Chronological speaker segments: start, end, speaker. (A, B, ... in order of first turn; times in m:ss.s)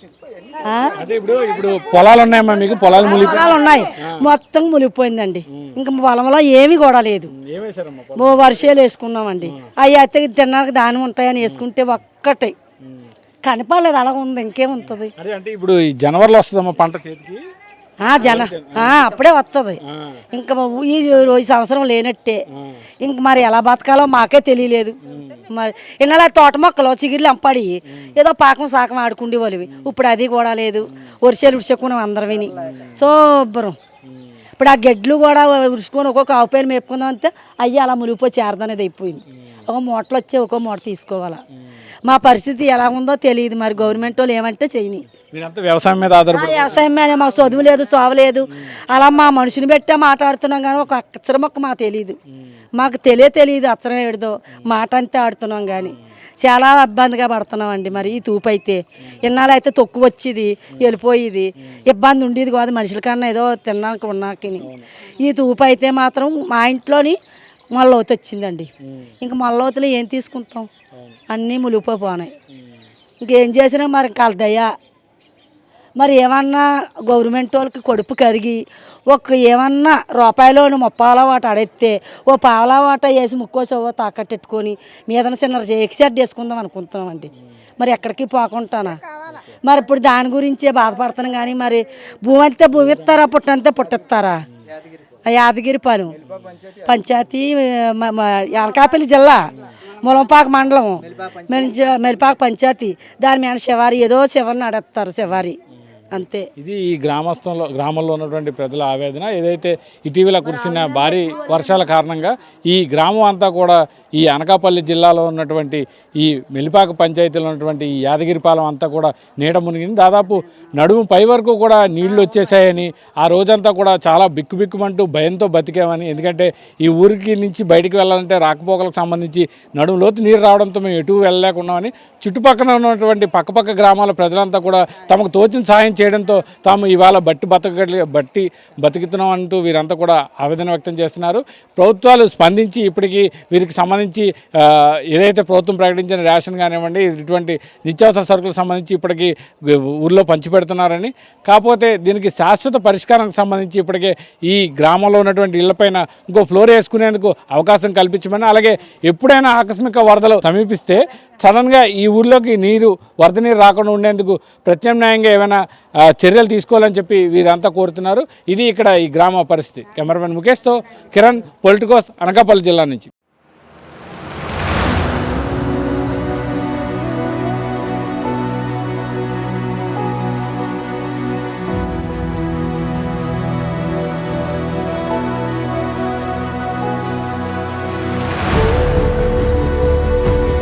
0:00.6-0:00.9 A
0:01.0-0:03.5 B
0:03.0-0:07.3 A
0:07.4-0:08.6 B
0:08.2-0:12.5 A
0:13.4-0:15.1 A
0:14.9-0:17.4 B
0:18.0-0:19.8 A
0:18.2-0:19.0 B
0:20.3-0:22.4 A
0:23.0-0:24.9 A
0:25.1-0:25.3 B
0:25.6-0:33.8 A
0:34.6-0:41.4 A
0:42.1-0:45.0 A
0:45.3-0:46.8 B
0:46.3-0:52.2 A
0:52.8-1:04.7 A
1:05.2-1:07.2 A
1:07.7-1:08.7 A
1:08.8-1:09.1 B
1:09.2-1:10.7 A
1:11.3-1:12.3 A
1:13.2-1:14.7 A
1:16.0-1:29.0 A
1:29.7-1:34.4 A
1:35.3-1:36.1 A
1:36.9-1:39.4 A
1:40.0-1:45.6 A
1:46.1-1:46.4 A
1:46.6-2:45.6 B
2:46.2-2:53.1 B